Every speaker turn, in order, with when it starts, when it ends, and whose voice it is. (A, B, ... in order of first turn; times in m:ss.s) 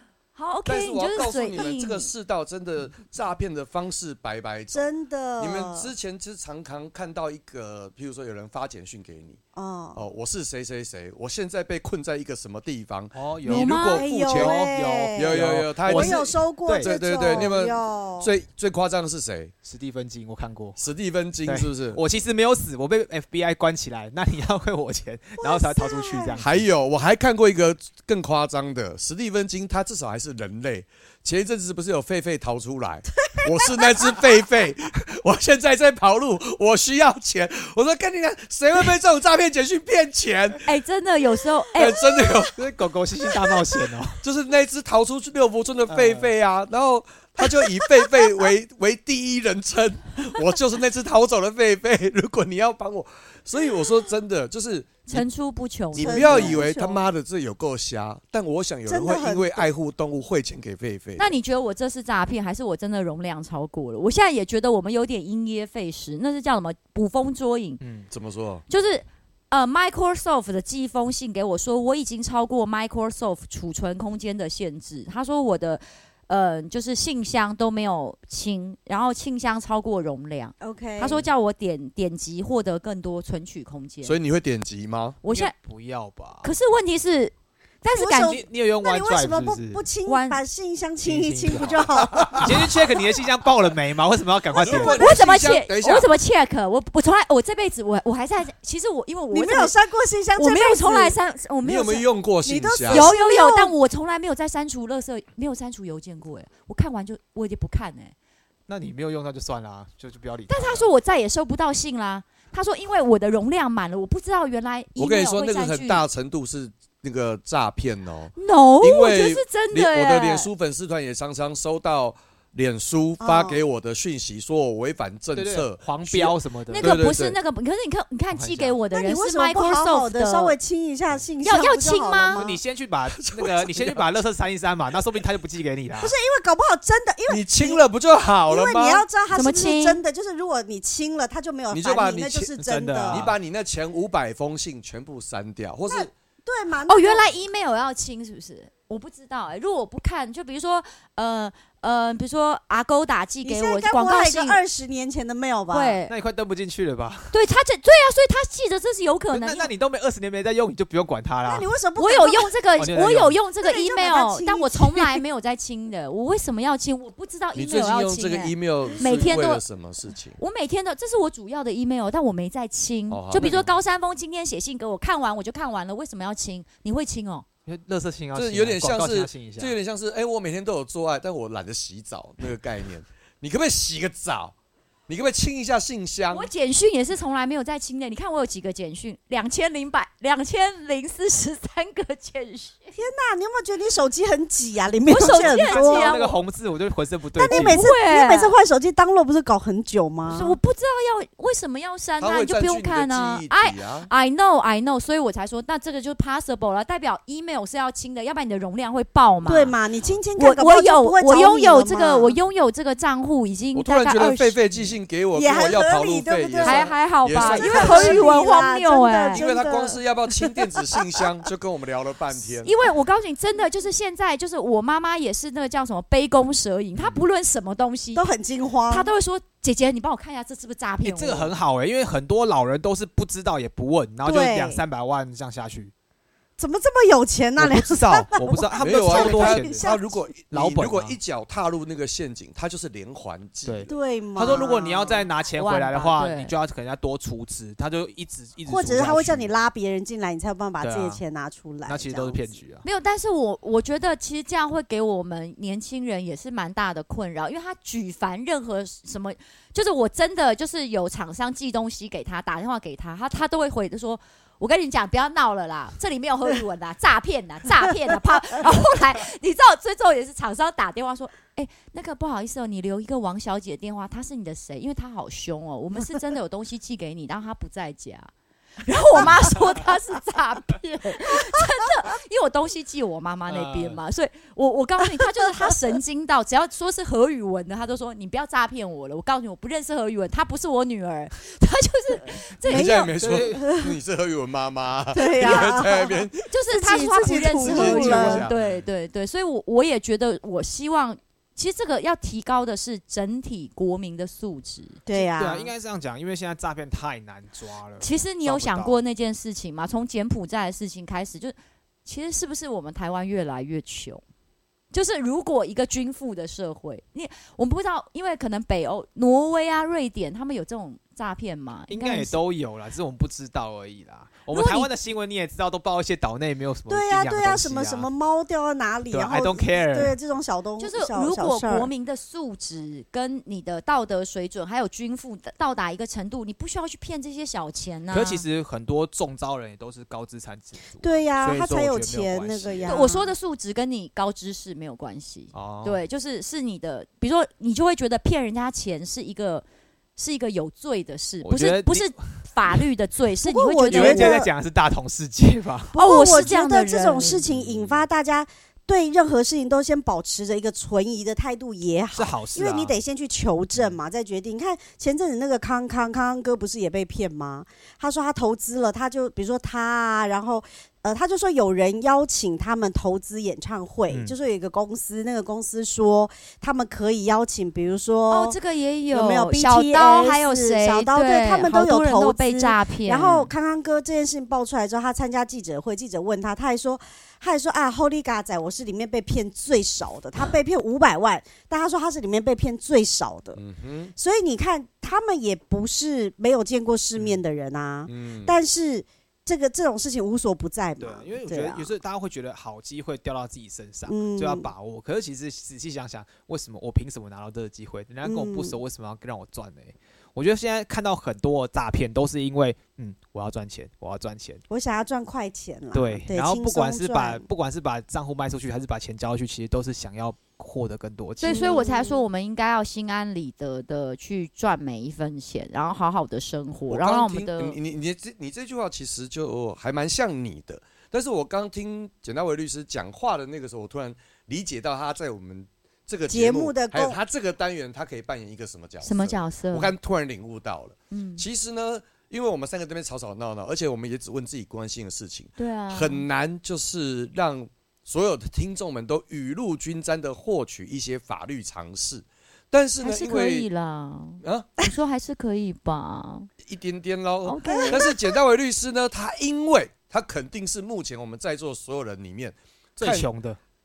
0:00.4-0:02.1 A
0:00.7-0:04.9 B
0:04.7-0:05.9 C
0:05.4-0:09.4 B
0:09.6-0:10.0 C
0:10.0-0:19.5 B
0:13.1-0:17.5 D
0:13.5-0:14.0 A
0:13.9-0:18.3 C
0:19.6-0:20.8 D
0:20.8-0:22.0 B
0:21.5-0:26.7 D
0:25.4-0:26.4 C
0:26.4-0:40.7 B
0:33.3-0:34.2 C
0:40.6-0:42.0 A
0:41.7-0:42.6 B
0:42.5-0:44.2 D
0:44.2-0:55.2 B
0:45.9-0:46.3 D
0:55.1-0:57.0 A
0:56.0-1:01.3 B
0:56.0-0:56.7 C
0:58.9-0:59.7 C
1:01.2-1:07.8 A
1:07.8-1:08.1 D
1:08.1-1:08.6 B
1:08.7-1:24.2 A
1:20.6-1:21.3 C
1:24.0-1:25.2 B
1:25.2-1:25.5 A
1:25.3-1:26.5 D
1:26.4-1:28.4 A
1:27.9-1:32.6 C
1:28.2-1:29.8 D
1:30.1-1:30.4 A
1:31.0-1:35.1 D
1:31.5-1:32.4 B
1:34.6-1:36.1 B
1:34.7-1:39.7 A
1:39.3-1:41.2 C
1:40.4-1:42.0 A
1:41.6-1:43.1 B
1:42.4-1:43.8 C
1:42.9-1:48.1 A
1:48.7-1:50.9 D
1:50.5-1:56.0 A
1:55.0-2:07.4 B
1:58.4-2:00.5 A
2:03.2-2:03.6 C
2:05.4-2:07.0 D
2:06.8-2:10.6 A
2:08.3-2:08.8 D
2:08.9-2:12.6 C
2:11.4-2:12.4 A
2:12.4-2:16.1 D
2:13.1-2:14.1 B
2:16.0-2:17.8 C
2:17.3-2:19.0 B
2:18.5-2:23.3 C
2:19.3-2:20.0 A
2:21.7-2:22.5 B
2:22.6-2:23.3 D
2:23.1-2:26.1 B
2:25.9-2:27.3 C
2:26.9-2:34.6 A
2:33.4-2:36.0 C
2:35.7-2:36.1 A
2:36.1-2:37.3 D
2:37.3-2:39.7 A
2:39.3-2:41.7 D
2:41.5-2:42.5 C
2:42.0-2:49.6 A
2:42.8-2:43.4 D
2:43.6-2:45.2 C
2:47.6-2:50.4 B
2:50.4-2:57.4 A
2:53.1-2:53.7 B
2:57.7-2:59.7 D
2:58.4-3:04.5 B
3:05.1-3:06.5 B
3:06.3-3:12.9 A
3:13.0-3:16.1 C
3:15.1-3:16.4 A
3:15.1-3:17.8 D
3:17.4-3:20.6 C
3:17.5-3:18.6 A
3:20.3-3:29.8 A
3:22.2-3:24.1 B
3:29.4-3:32.4 C
3:30.4-3:34.9 A
3:33.7-3:38.3 B
3:35.3-3:41.0 C
3:36.6-3:39.5 A
3:39.3-3:42.8 B
3:42.6-3:48.3 A
3:47.0-3:47.2 D
3:48.2-3:49.1 C
3:48.9-3:51.5 A
3:51.0-3:55.9 D
3:54.2-3:54.8 C
3:56.6-4:00.2 C
3:57.6-3:59.9 D
3:58.8-4:03.9 B
4:00.5-4:01.2 D
4:03.7-4:09.5 D
4:03.9-4:05.3 C
4:05.6-4:06.5 A
4:08.7-4:12.5 C
4:10.8-4:11.2 D
4:11.9-4:12.8 D
4:12.8-4:38.3 A
4:38.8-4:53.1 A
4:43.5-4:44.0 D
4:52.7-4:56.4 B
4:52.7-4:54.0 C
4:53.2-4:53.6 D
4:55.1-4:58.5 C
4:55.3-5:05.0 A
4:57.0-4:58.7 B
5:05.1-5:05.7 C
5:05.4-5:09.0 D
5:08.0-5:14.2 A
5:14.9-5:22.4 A
5:21.9-5:28.1 D
5:24.5-5:24.9 A
5:26.9-5:31.9 C
5:29.1-5:30.2 D
5:30.8-5:38.4 A
5:38.1-5:43.0 D
5:41.0-5:43.3 C
5:42.8-5:49.6 A
5:45.5-5:46.0 D
5:50.2-5:54.4 A
5:51.4-5:52.8 D
5:53.4-5:54.5 C
5:53.9-5:56.0 D
5:55.9-6:18.6 C
5:56.0-5:57.4 A
5:57.5-5:57.9 B
6:02.1-6:03.0 D
6:14.1-6:14.4 D
6:18.3-6:23.5 A
6:19.1-6:33.6 C
6:33.6-6:34.1 B
6:34.2-6:41.9 C
6:38.1-6:38.6 B
6:41.0-6:54.6 D
6:44.1-6:44.7 C
6:48.2-6:48.8 C
6:54.7-6:57.5 C
6:55.9-7:01.8 D
7:01.4-7:07.8 A
7:01.5-7:02.2 C
7:06.9-7:33.7 B
7:16.3-7:17.2 C
7:19.0-7:19.9 A
7:21.1-7:21.4 A
7:25.6-7:26.2 A
7:33.0-7:36.5 A
7:34.4-7:34.7 B
7:36.6-7:43.3 B
7:37.4-7:38.0 A
7:37.6-7:38.2 C
7:43.0-7:43.6 D